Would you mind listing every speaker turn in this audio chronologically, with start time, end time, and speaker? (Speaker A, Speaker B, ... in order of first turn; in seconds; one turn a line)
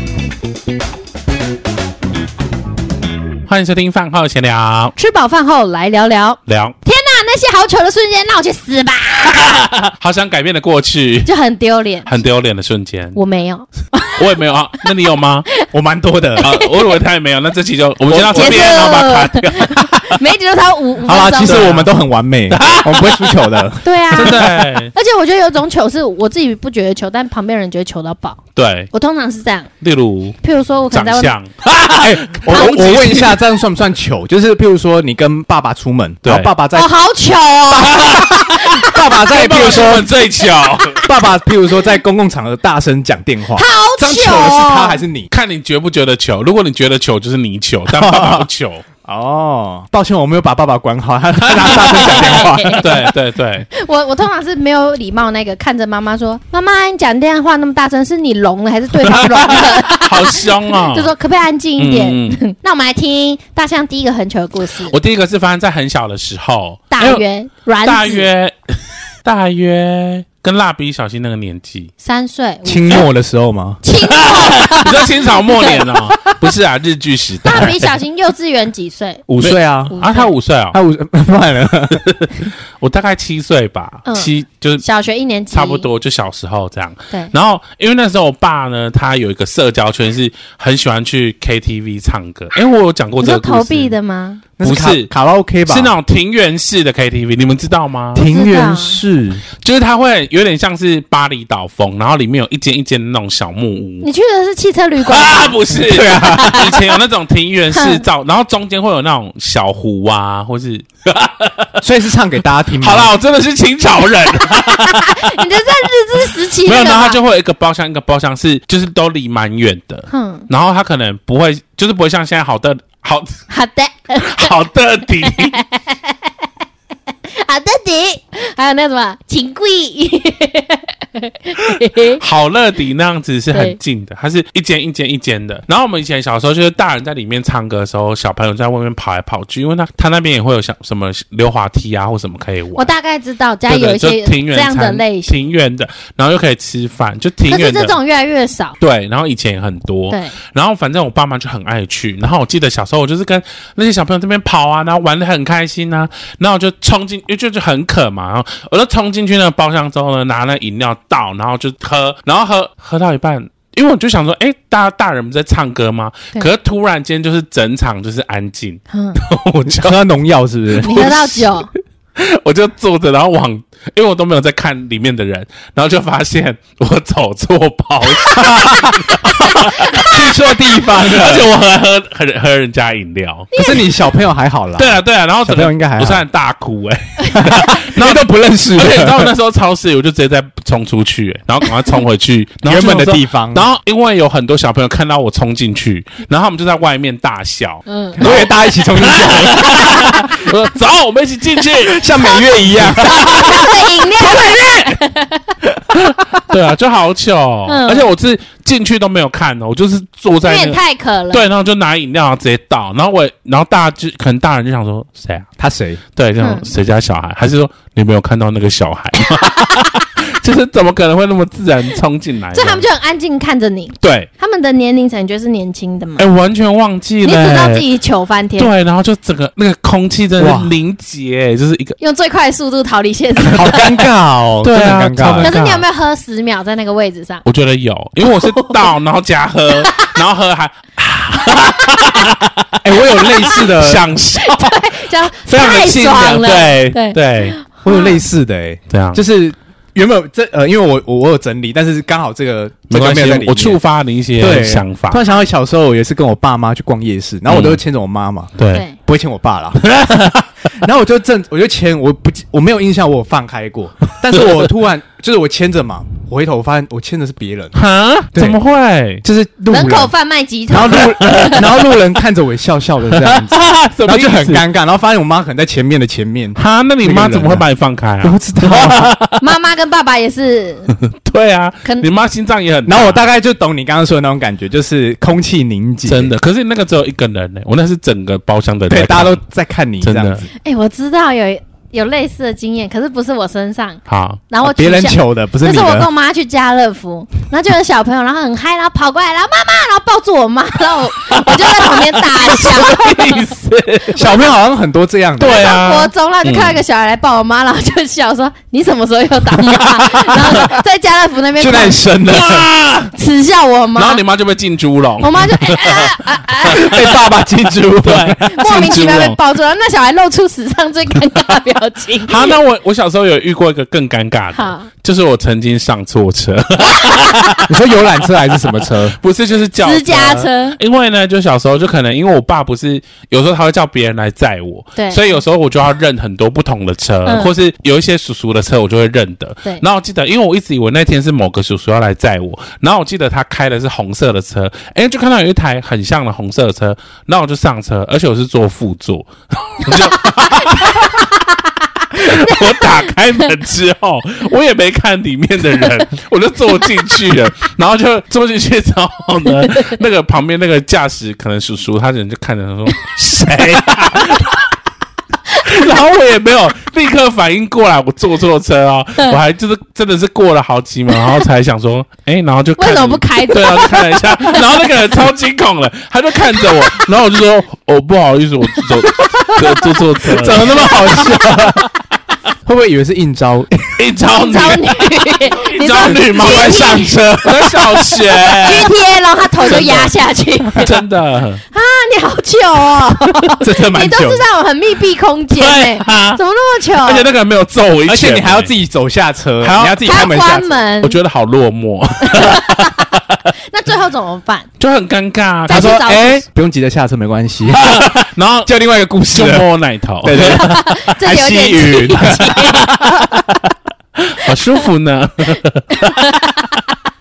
Speaker A: 3.5-4.9
Speaker B: 5.0-9.5
Speaker A: 6.5-6.8
Speaker A: 9.4-11.3
Speaker B: 11.3-12.1
Speaker A: 12.1-13.2
Speaker B: 13.2-14.3
Speaker A: 14.2-15.5
Speaker C: 15.7-16.5
Speaker B: 16.4-17.0
Speaker A: 16.4-19.9
Speaker C: 18.1-18.7
Speaker B: 18.3-21.7
Speaker C: 21.1-24.5
Speaker A: 21.4-21.9
Speaker A: 22.5-23.6
Speaker B: 23.8-29.7
Speaker A: 24.1-24.9
Speaker A: 28.6-28.9
Speaker A: 29.8-30.4
Speaker B: 30.4-31.3
Speaker A: 30.9-33.4
Speaker C: 32.0-36.9
Speaker A: 36.2-36.5
Speaker B: 36.7-41.1
Speaker C: 37.7-40.1
Speaker A: 37.7-41.0
Speaker C: 41.0-45.3
Speaker B: 43.5-45.0
Speaker A: 45.3-48.9
Speaker C: 47.9-48.5
Speaker C: 49.0-52.9
Speaker A: 51.4-53.7
Speaker B: 51.7-53.1
Speaker B: 53.7-65.0
Speaker A: 59.0-61.1
Speaker A: 61.8-62.4
Speaker A: 64.9-67.2
Speaker B: 66.9-68.3
Speaker A: 67.8-71.9
Speaker B: 72.0-73.1
Speaker C: 72.7-73.8
Speaker B: 73.8-75.8
Speaker A: 74.0-78.0
Speaker B: 77.5-79.3
Speaker C: 79.3-80.0
Speaker A: 79.4-80.8
Speaker B: 79.9-80.3
Speaker C: 80.7-82.5
Speaker A: 81.9-84.8
Speaker B: 84.1-85.8
Speaker A: 85.5-93.9
Speaker B: 93.2-94.4
Speaker C: 94.6-95.9
Speaker A: 94.6-95.1
Speaker A: 95.7-98.3
Speaker C: 98.2-99.4
Speaker B: 98.3-99.0
Speaker A: 99.6-104.1
Speaker B: 104.0-106.8
Speaker A: 105.0-111.8
Speaker C: 105.7-106.7
Speaker B: 107.7-108.0
Speaker C: 111.8-113.1
Speaker A: 112.8-115.4
Speaker B: 114.4-117.2
Speaker A: 116.2-123.4
Speaker B: 120.1-120.5
Speaker B: 123.5-124.5
Speaker A: 124.2-125.6
Speaker B: 125.2-126.3
Speaker B: 127.3-132.2
Speaker A: 131.7-142.9
Speaker B: 133.5-133.8
Speaker B: 142.8-145.4
Speaker A: 143.7-148.0
Speaker B: 147.5-148.8
Speaker A: 148.8-170.0
Speaker B: 150.1-150.4
Speaker B: 168.9-169.2
Speaker C: 169.6-171.3
Speaker A: 170.7-171.4
Speaker B: 170.8-171.7
Speaker A: 172.2-183.5
Speaker C: 178.4-179.3
Speaker B: 179.7-180.2
Speaker C: 179.9-181.5
Speaker B: 183.5-184.0
Speaker C: 183.6-186.2
Speaker A: 184.8-203.7
Speaker C: 187.3-189.3
Speaker C: 192.7-193.7
Speaker B: 197.9-198.2
Speaker C: 198.2-200.4
Speaker C: 201.7-205.0
Speaker B: 203.0-205.5
Speaker C: 205.9-206.3
Speaker A: 206.0-210.8
Speaker B: 207.7-208.1
Speaker B: 210.4-211.5
Speaker A: 211.3-215.5
Speaker C: 215.6-216.0
Speaker A: 216.2-222.8
Speaker B: 216.4-216.7
Speaker B: 219.3-220.0
Speaker B: 222.5-226.3
Speaker A: 224.0-224.3
Speaker A: 226.2-227.8
Speaker B: 227.2-228.7
Speaker A: 228.6-232.0
Speaker C: 230.4-230.7
Speaker B: 232.0-234.1
Speaker C: 233.5-235.5
Speaker A: 234.6-235.8
Speaker B: 235.4-237.4
Speaker A: 237.4-247.6
Speaker B: 238.2-238.9
Speaker B: 239.8-240.2
Speaker B: 241.8-242.2
Speaker C: 242.8-244.1
Speaker B: 243.1-243.7
Speaker B: 244.4-248.2
Speaker C: 247.8-253.8
Speaker A: 248.9-249.2
Speaker A: 252.9-255.2
Speaker C: 254.4-260.0
Speaker A: 257.5-257.8
Speaker A: 258.6-258.9
Speaker A: 259.8-260.5
Speaker C: 260.7-267.8
Speaker A: 267.7-269.2
Speaker C: 268.3-268.6
Speaker C: 269.2-270.1
Speaker B: 269.7-271.8
Speaker C: 270.7-277.6
Speaker A: 271.2-271.6
Speaker A: 273.1-274.6
Speaker A: 276.6-279.4
Speaker C: 278.2-279.1
Speaker B: 279.4-280.9
Speaker A: 281.0-283.3
Speaker C: 282.9-286.3
Speaker A: 286.1-289.4
Speaker C: 288.9-290.5
Speaker A: 290.0-290.5
Speaker B: 290.6-303.4
Speaker A: 294.1-294.4
Speaker C: 294.6-296.1
Speaker A: 301.3-304.2
Speaker C: 304.1-305.8
Speaker B: 304.2-304.5
Speaker A: 305.4-306.8
Speaker B: 305.4-312.0
Speaker C: 309.8-310.6
Speaker C: 311.6-312.7
Speaker A: 312.3-313.1
Speaker B: 313.1-314.2
Speaker A: 313.9-316.9
Speaker B: 315.2-316.9
Speaker C: 316.6-318.5
Speaker A: 318.0-319.4
Speaker B: 318.6-322.6
Speaker A: 322.3-327.7
Speaker B: 324.5-324.9
Speaker C: 327.7-329.2
Speaker A: 328.8-351.3
Speaker B: 329.8-330.8
Speaker B: 335.0-335.4
Speaker B: 337.3-337.5
Speaker B: 349.9-351.6
Speaker A: 352.1-364.6
Speaker B: 352.2-353.1
Speaker A: 365.6-381.9
Speaker B: 371.1-371.4
Speaker B: 372.8-374.9
Speaker B: 376.5-376.9
Speaker C: 379.2-381.9
Speaker B: 380.8-381.4
Speaker C: 382.6-384.0
Speaker A: 384.0-388.9
Speaker B: 384.3-391.0
Speaker C: 386.5-386.9
Speaker A: 389.6-390.1
Speaker A: 390.8-391.6
Speaker B: 391.7-397.3
Speaker C: 393.6-394.4
Speaker A: 395.6-396.4
Speaker A: 396.9-398.7
Speaker C: 398.1-400.7
Speaker A: 399.6-400.1
Speaker B: 400.0-401.2
Speaker A: 401.0-403.4
Speaker B: 402.2-404.7
Speaker A: 404.8-406.2
Speaker B: 405.7-406.4
Speaker C: 405.7-409.7
Speaker A: 407.7-408.7
Speaker A: 409.3-410.8
Speaker C: 410.2-413.4
Speaker B: 410.3-413.3
Speaker A: 414.2-416.4
Speaker B: 416.0-416.9